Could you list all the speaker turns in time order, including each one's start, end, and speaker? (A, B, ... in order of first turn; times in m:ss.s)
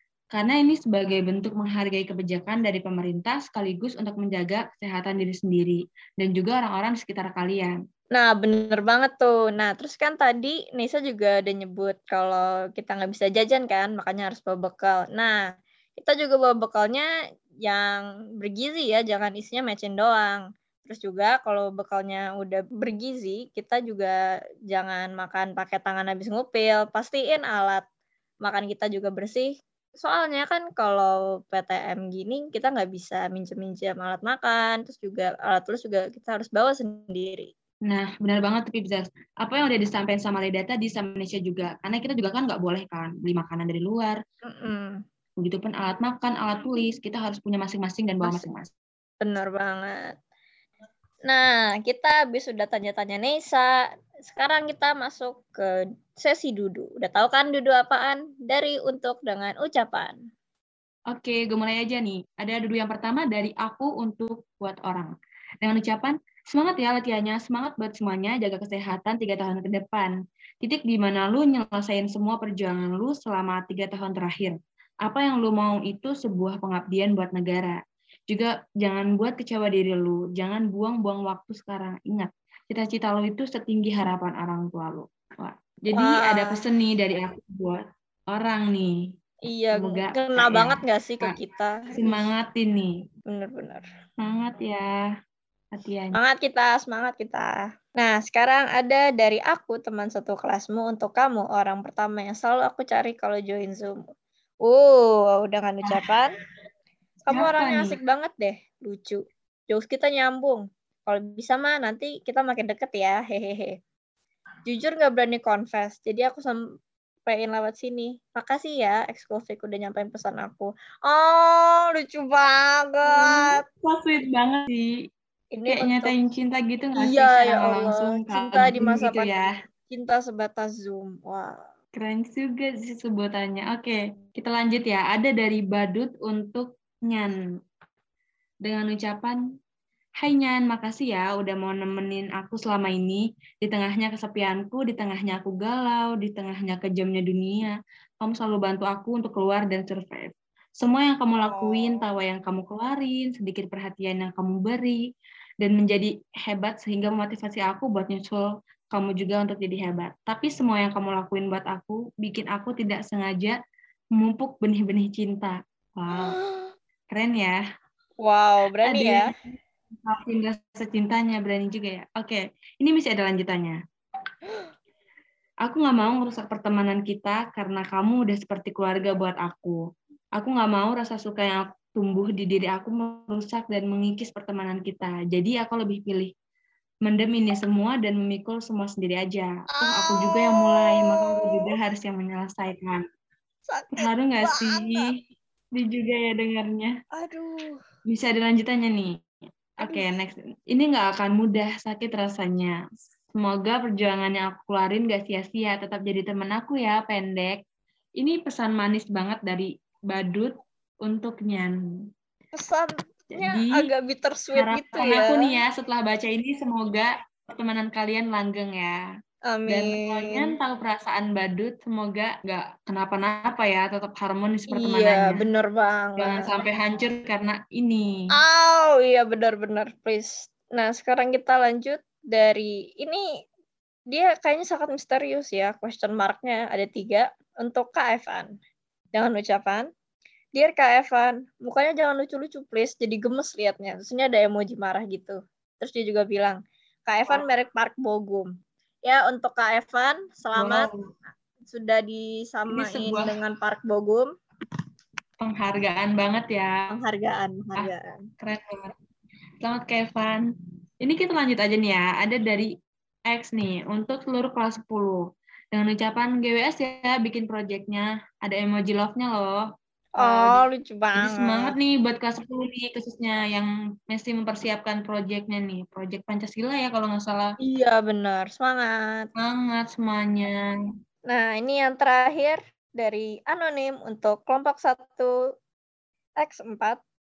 0:00.3-0:07.7 A
0:08.1-0:15.4 B
0:16.0-0:17.1 B
0:17.6-0:24.2 B
0:24.7-0:27.8 B
0:28.4-0:37.5 B
0:37.8-0:44.2 A
0:44.4-0:45.0 B
0:45.4-0:48.7 A
0:49.2-0:50.1 B
0:51.3-0:53.7 B
0:54.2-1:00.2 B
1:01.1-1:05.1 A
1:05.6-1:17.8 A
1:18.3-1:28.9 A
1:25.9-1:26.7 B
1:29.5-1:32.3 B
1:29.8-1:31.3 A
1:31.9-1:32.9 A
1:33.3-1:33.8 B
1:34.2-1:35.0 A
1:35.7-1:36.1 A
1:36.1-1:44.0 B
1:44.6-1:46.3 B
1:47.3-1:53.7 B
1:47.3-1:48.0 A
1:54.6-1:56.6 B
1:57.3-2:03.6 B
2:03.1-2:04.9 A
2:05.5-2:06.1 B
2:05.7-2:09.5 A
2:07.0-2:11.6 B
2:11.9-2:17.3 A
2:18.6-2:19.4 A
2:20.2-2:35.0 A
2:31.4-2:32.0 B
2:35.6-2:43.5 A
2:44.2-2:46.4 A
2:46.1-2:46.7 B
2:47.1-2:47.6 A
2:48.2-2:49.2 B
2:48.8-2:49.3 A
2:50.0-2:53.8 A
2:55.6-2:59.8 A
3:00.4-3:06.3 A
3:07.0-3:13.0 A
3:09.7-3:11.7 B
3:13.7-3:15.1 B
3:13.9-3:15.2 A
3:15.7-3:16.9 A
3:17.1-3:17.8 B
3:18.0-3:19.1 A
3:19.8-3:22.7 A
3:23.3-3:27.6 A
3:28.2-3:30.5 A
3:31.0-3:31.7 A
3:32.5-3:35.5 B
3:33.3-3:33.9 A
3:34.5-3:39.0 A
3:39.5-3:40.5 B
3:39.7-3:45.4 A
3:44.7-3:46.5 B
3:46.2-3:48.1 A
3:48.3-3:53.2 B
3:54.1-3:58.5 B
3:59.1-3:59.9 B
4:00.5-4:08.5 B
4:09.0-4:10.9 B
4:10.6-4:11.0 A
4:11.7-4:14.3 B
4:12.7-4:13.3 A
4:15.4-4:16.9 A
4:16.9-4:18.2 B
4:17.8-4:18.9 A
4:19.6-4:20.4 A
4:21.0-4:22.7 A
4:23.3-4:25.2 A
4:25.7-4:29.6 A
4:30.2-4:30.6 A
4:30.2-4:31.7 B
4:31.2-4:37.5 A
4:37.6-4:39.3 B
4:39.4-4:40.6 A
4:41.3-4:45.3 B
4:46.4-4:47.0 B